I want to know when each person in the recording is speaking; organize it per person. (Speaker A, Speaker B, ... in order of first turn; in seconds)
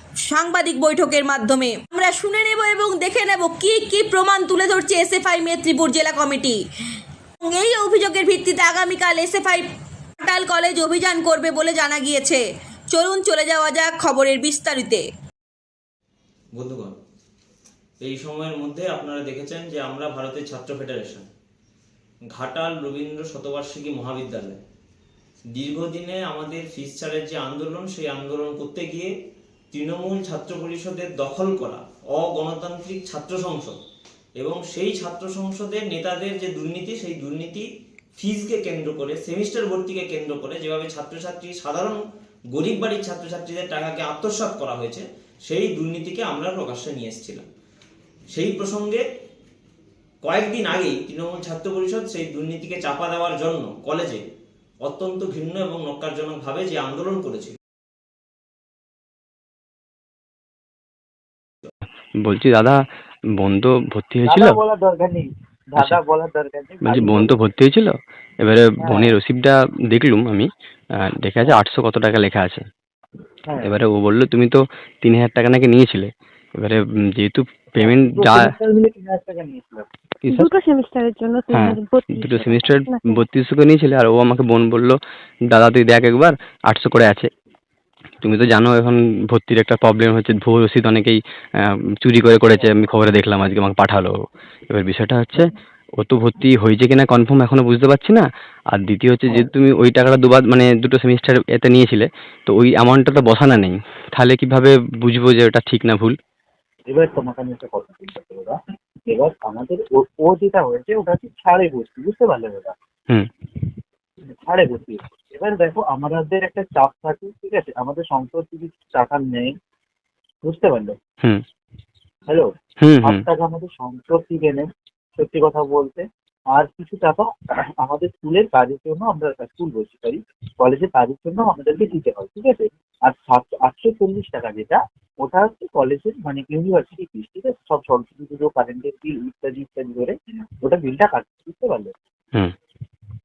Speaker A: 0.3-6.6, 7.4-9.7, 10.2-15.1
Speaker B: 16.5-17.0, 18.0-21.2, 22.3-24.6, 25.5-29.1, 29.7-33.8, 34.4-42.0, 42.5-47.5, 48.3-49.0, 50.2-54.2, 54.8-57.5
Speaker C: 62.2-62.8, 63.4-64.6, 66.8-72.7, 73.6-78.4, 81.5-85.0, 85.5-87.3, 88.2-94.2, 94.7-106.2, 122.8-123.2
Speaker D: 64.2-67.3, 68.8-69.1, 73.4-73.7, 77.8-79.8, 106.9-112.7, 114.4-119.5, 120.4-120.9, 123.0-127.3, 127.8-141.9
Speaker E: 80.2-83.2